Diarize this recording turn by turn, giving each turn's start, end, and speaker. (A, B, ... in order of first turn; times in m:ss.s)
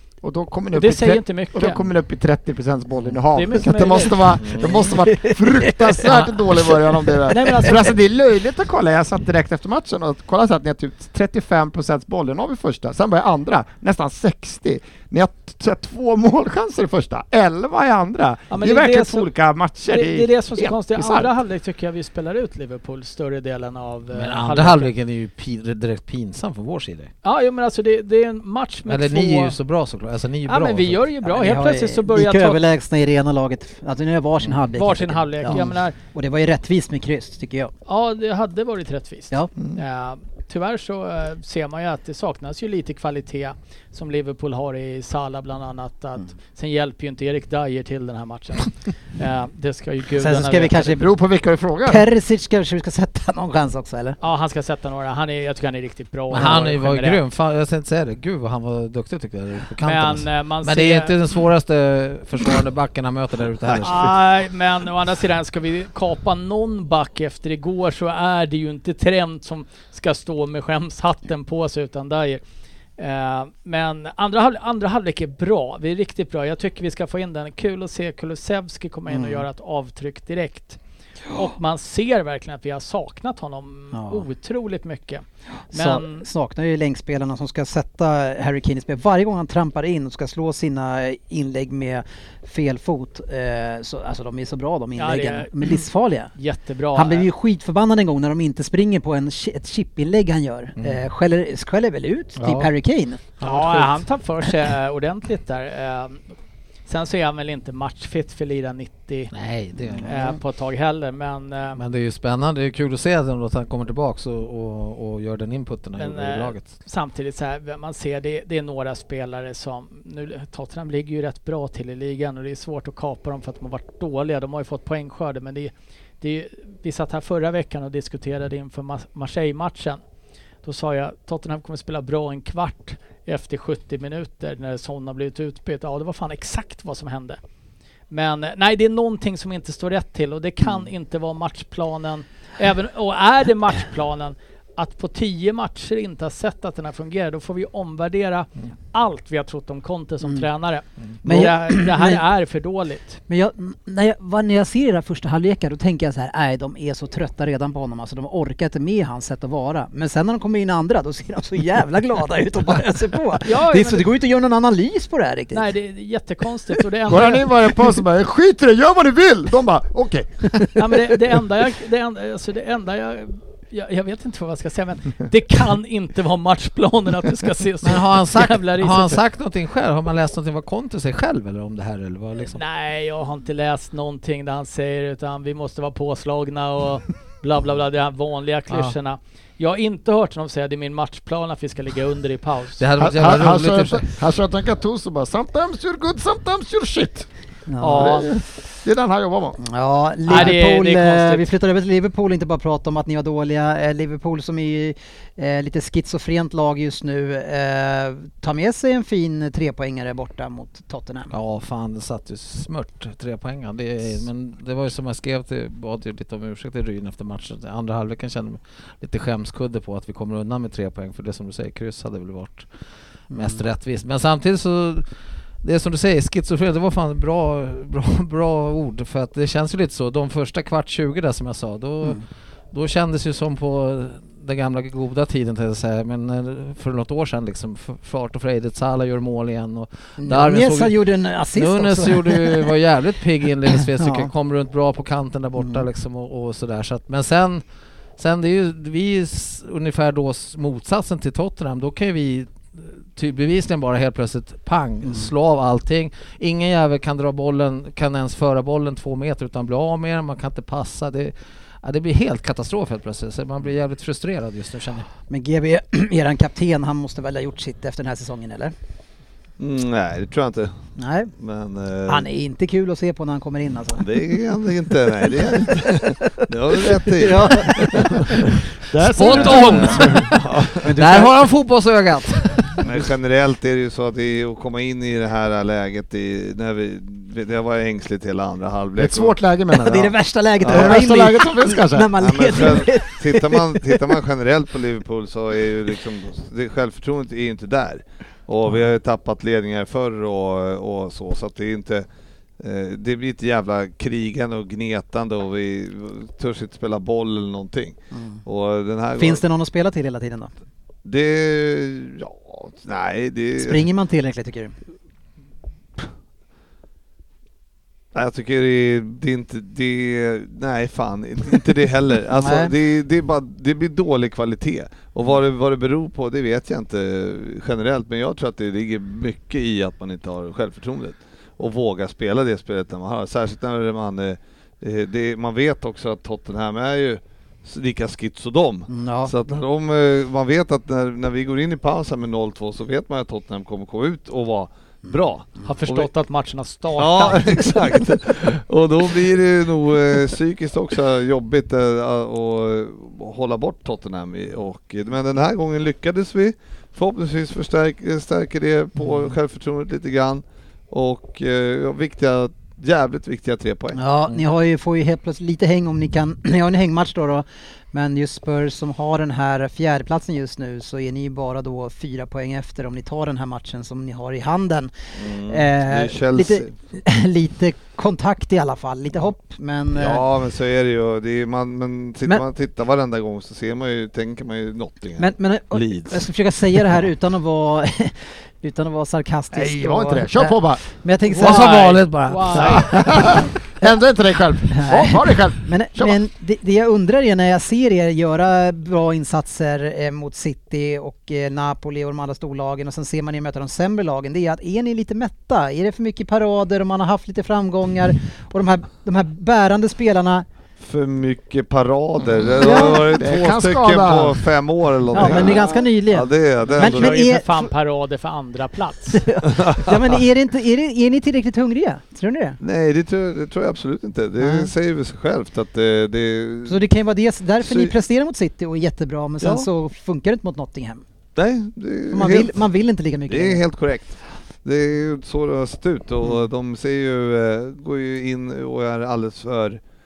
0:00.2-0:21.3 A
0:00.7-0:01.8 B
0:03.3-0:04.6 B
0:04.4-0:04.9 C
0:05.2-0:05.9 D
0:07.3-0:07.9 B
0:07.4-0:07.6 D
0:18.5-0:19.3 B
0:19.8-0:24.9 B
0:24.1-0:27.1 E
0:27.2-0:29.6 B
0:28.8-0:31.0 E
0:30.5-0:32.6 B
0:31.2-0:37.7 D
0:34.8-0:36.0 B
0:37.9-0:51.0 B
0:50.2-0:51.1 D
0:50.9-0:52.0 A
0:51.8-0:54.2 D
0:54.2-0:57.2 B
0:56.3-1:04.2 E
0:59.8-1:01.1 B
1:03.8-1:12.4 B
1:13.0-1:20.8 B
1:19.1-1:19.4 D
1:21.3-1:26.3 B
1:23.9-1:24.2 D
1:25.7-1:36.3 D
1:35.0-1:35.8 B
1:36.4-1:37.3 B
1:36.9-1:43.6 D
1:40.8-1:41.0 E
1:42.4-1:42.7 E
1:43.4-1:46.2 B
1:43.4-1:43.9 E
1:46.9-1:49.3 B
1:49.3-1:50.2 E
1:49.9-1:50.4 D
1:50.0-1:51.8 B
1:51.7-1:56.7 E
1:56.0-2:10.0 B
2:10.6-2:17.4 B
2:18.1-2:33.2 B
2:31.2-2:32.2 D
2:33.3-2:45.7 D
2:43.4-2:44.1 B
2:45.5-2:47.8 B
2:47.1-2:51.1 A
2:50.8-2:59.2 B
2:57.8-3:02.6 E
3:02.4-3:12.8 B
3:12.8-3:14.1 E
3:13.0-3:17.3 A
3:17.7-3:18.2 D
3:17.8-3:18.3 B
3:17.9-3:19.6 A
3:19.6-3:31.3 D
3:20.3-3:21.4 B
3:31.3-3:42.7 E
3:43.3-3:45.1 E
3:43.3-3:43.6 D
3:45.6-4:01.0 E
4:00.2-4:02.8 D
4:01.5-4:07.6 E
4:03.7-4:04.3 D
4:05.6-4:05.8 D
4:08.2-4:25.1 E
4:15.0-4:15.3 D
4:25.3-4:28.7 D
4:29.6-4:30.7 C
4:31.0-4:31.3 D
4:31.4-4:32.3 C
4:32.1-4:34.1 D
4:34.0-4:38.3 C
4:35.2-4:38.4 D
4:39.0-4:40.3 E
4:39.2-4:40.9 C
4:39.3-4:39.6 B
4:39.4-4:40.2 D
4:40.8-4:41.4 D
4:40.8-4:42.8 E
4:42.8-4:49.4 C
4:49.0-4:52.1 A
4:49.7-4:54.1 D
4:50.6-4:51.0 C
4:52.2-5:02.0 C
5:02.6-5:09.4 C
5:08.1-5:08.4 D
5:09.2-5:10.5 D
5:11.0-5:13.9 C
5:13.6-5:14.7 D
5:18.1-5:46.1 C
5:22.3-5:22.7 D
5:38.9-5:39.3 D
5:45.6-5:47.9 B
5:47.0-6:04.0 C
6:03.9-6:20.2 D
6:15.2-6:16.7 C
6:19.9-6:26.2 C
6:25.2-6:31.9 D
6:29.5-6:30.9 A
6:31.3-6:33.1 E
6:31.4-6:33.1 B
6:32.6-6:36.2 A
6:34.7-6:50.4 D
6:50.8-6:57.2 C
6:52.4-6:54.4 A
6:52.6-6:53.1 D
6:55.1-6:57.7 D
6:55.2-6:55.6 A
6:56.7-6:59.3 B
6:59.1-7:02.6 D
6:59.4-7:00.0 C
7:02.6-7:06.8 C
7:04.4-7:04.7 D
7:06.6-7:11.0 D
7:07.6-7:07.9 C
7:09.4-7:09.7 C
7:11.4-7:12.6 C
7:12.1-7:13.6 D
7:13.3-7:19.8 C